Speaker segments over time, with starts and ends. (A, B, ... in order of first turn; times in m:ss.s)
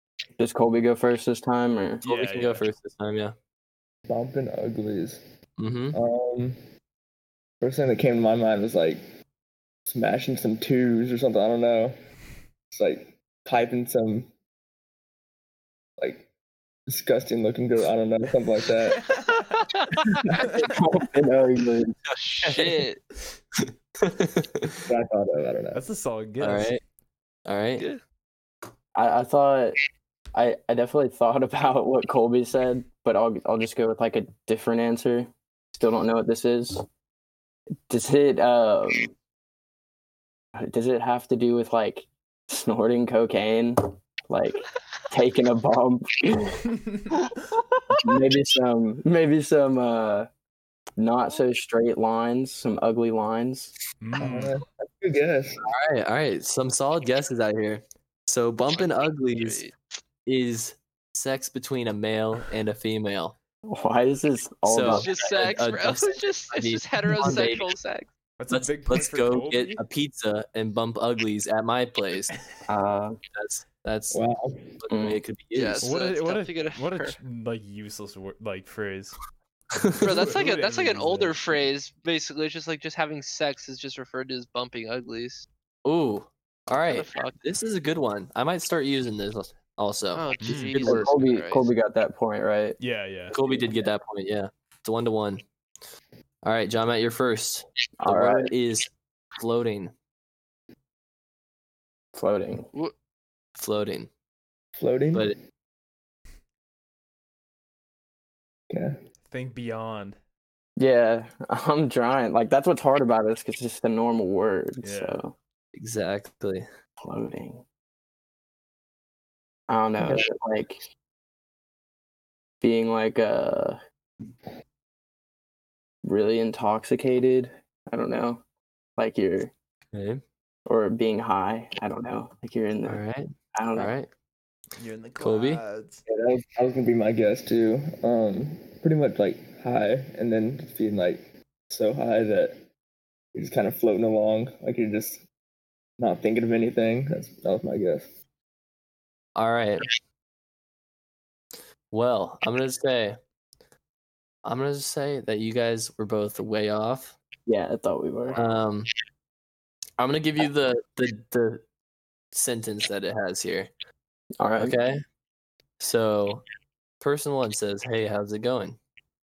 0:00.4-0:02.0 A
0:02.0-0:02.7 B
0:02.0-0:03.4 C
0:04.1-0:05.2 D
0:05.6-0:06.0 C
0:05.9-0:06.6 D
0:07.6-0:09.0 D
0:09.9-0:12.0 D
0:12.7-0:14.3 D
0:16.0-0:16.3 D
0:16.9-0:19.2 D
0:19.1-0:20.1 E
0:20.6-0:22.0 A
0:22.2-0:23.0 E
0:22.4-0:22.8 C
0:24.0-0:24.8 C
0:24.9-0:25.8 D
0:25.7-0:26.8 B
0:26.4-0:26.8 C
0:27.5-0:27.9 C
0:29.0-0:29.8 A
0:30.3-0:36.8 A
0:37.9-0:39.1 A
0:40.6-0:46.6 A
0:46.7-0:47.2 B
0:48.0-0:50.3 A
0:51.0-0:53.7 A
0:54.0-0:54.6 B
0:54.2-0:55.6 D
0:55.6-0:59.6 C
0:58.7-0:59.7 E
1:00.3-1:03.4 C
1:03.6-1:05.6 A
1:04.7-1:07.7 C
1:04.8-1:08.1 E
1:08.4-1:09.8 B
1:08.5-1:12.3 C
1:12.7-1:13.2 A
1:13.3-1:14.2 C
1:14.1-1:14.8 D
1:14.8-1:15.8 C
1:14.9-1:15.2 A
1:15.6-1:17.2 E
1:15.8-1:19.2 B
1:19.8-1:20.3 C
1:19.8-1:21.7 B
1:20.0-1:25.5 E
1:25.8-1:30.9 C
1:26.9-1:27.4 E
1:30.1-1:31.7 E
1:30.4-1:31.1 B
1:30.8-1:32.8 A
1:32.8-1:33.4 B
1:33.3-1:35.4 C
1:36.4-1:39.9 C
1:38.0-1:38.5 A
1:42.2-1:42.7 A
1:43.6-1:44.1 C
1:44.8-1:45.4 D
1:48.7-1:49.0 D
1:49.3-1:50.2 B
1:50.8-1:55.3 A
1:54.8-1:55.2 B
1:55.8-1:56.6 C
1:57.0-1:57.6 A
1:59.7-2:00.8 A
2:02.6-2:03.8 A
2:06.0-2:08.4 A
2:09.0-2:09.5 A
2:09.9-2:10.2 C
2:10.7-2:13.0 A
2:12.9-2:14.1 C
2:13.6-2:13.9 A
2:14.8-2:16.0 B
2:15.2-2:15.6 C
2:16.1-2:22.7 D
2:23.3-2:25.2 D
2:26.0-2:28.1 D
2:29.4-2:29.9 C
2:31.9-2:33.2 C
2:34.4-2:37.2 C
2:37.5-2:38.4 A
2:38.4-2:38.9 C
2:40.0-2:41.6 C
2:42.3-2:43.7 C
2:44.4-2:44.8 A
2:44.6-2:45.0 C
2:45.8-2:46.4 C
2:47.0-2:48.8 C